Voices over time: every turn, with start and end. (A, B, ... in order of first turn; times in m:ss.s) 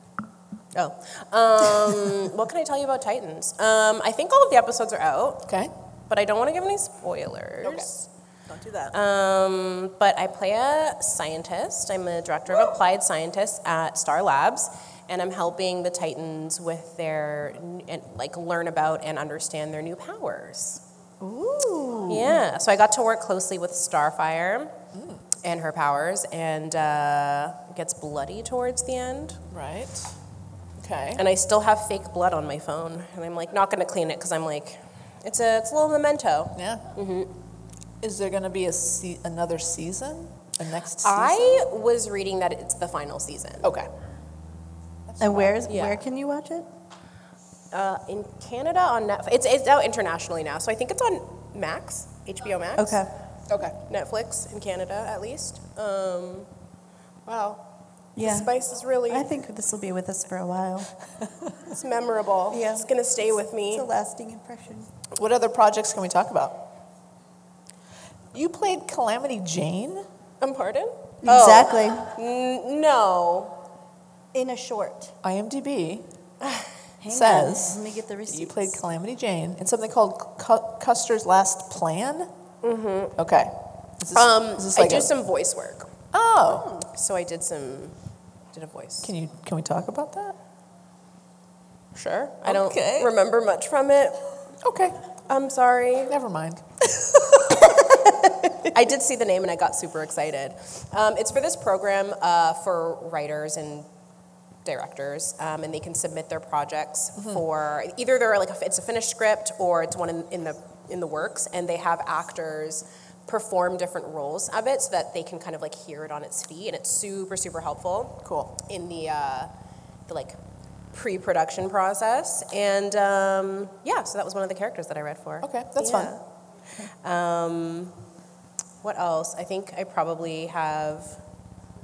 0:00.7-0:05.4 A
0:06.1-0:08.0 A
0:07.6-0:07.9 B
0:08.5-0:08.9 B
0:08.9-0:20.8 A
0:21.2-0:22.4 C
0:22.1-0:24.7 A
0:24.9-0:25.2 B
0:25.4-0:29.4 A
0:29.5-0:30.1 B
0:30.8-0:31.2 B
0:31.2-0:37.3 A
0:36.6-0:36.8 B
0:38.0-0:41.6 B
0:41.0-0:43.7 A
0:45.1-0:45.6 B
0:45.2-0:46.7 C
0:45.7-0:46.0 A
0:47.7-0:53.0 A
0:52.8-0:53.1 C
0:53.5-0:53.7 B
0:53.8-0:56.5 A
0:57.3-0:57.6 A
0:58.2-0:58.5 C
0:58.2-0:59.3 A
0:59.1-1:00.9 C
1:01.7-1:03.9 A
1:02.5-1:02.9 C
1:03.7-1:04.9 C
1:05.2-1:06.6 B
1:08.3-1:10.0 B
1:10.4-1:13.6 A
1:11.2-1:12.0 C
1:14.3-1:15.1 C
1:15.2-1:16.0 B
1:17.0-1:18.8 C
1:17.1-1:22.3 B
1:22.6-1:23.1 A
1:23.2-1:25.1 B
1:24.1-1:25.9 A
1:26.1-1:26.7 B
1:26.4-1:26.8 C
1:26.9-1:27.9 A
1:28.5-1:29.1 A
1:29.0-1:30.4 B
1:31.9-1:34.2 A
1:32.4-1:33.1 B
1:34.6-1:34.9 B
1:35.3-1:36.1 A
1:36.1-1:37.8 B
1:38.7-1:43.9 A
1:44.6-1:59.5 A
1:47.2-1:47.4 B
1:58.2-1:58.5 B
2:00.1-2:00.4 A
2:00.9-2:06.2 A
2:05.4-2:06.1 B
2:07.0-2:08.0 A
2:08.8-2:11.2 A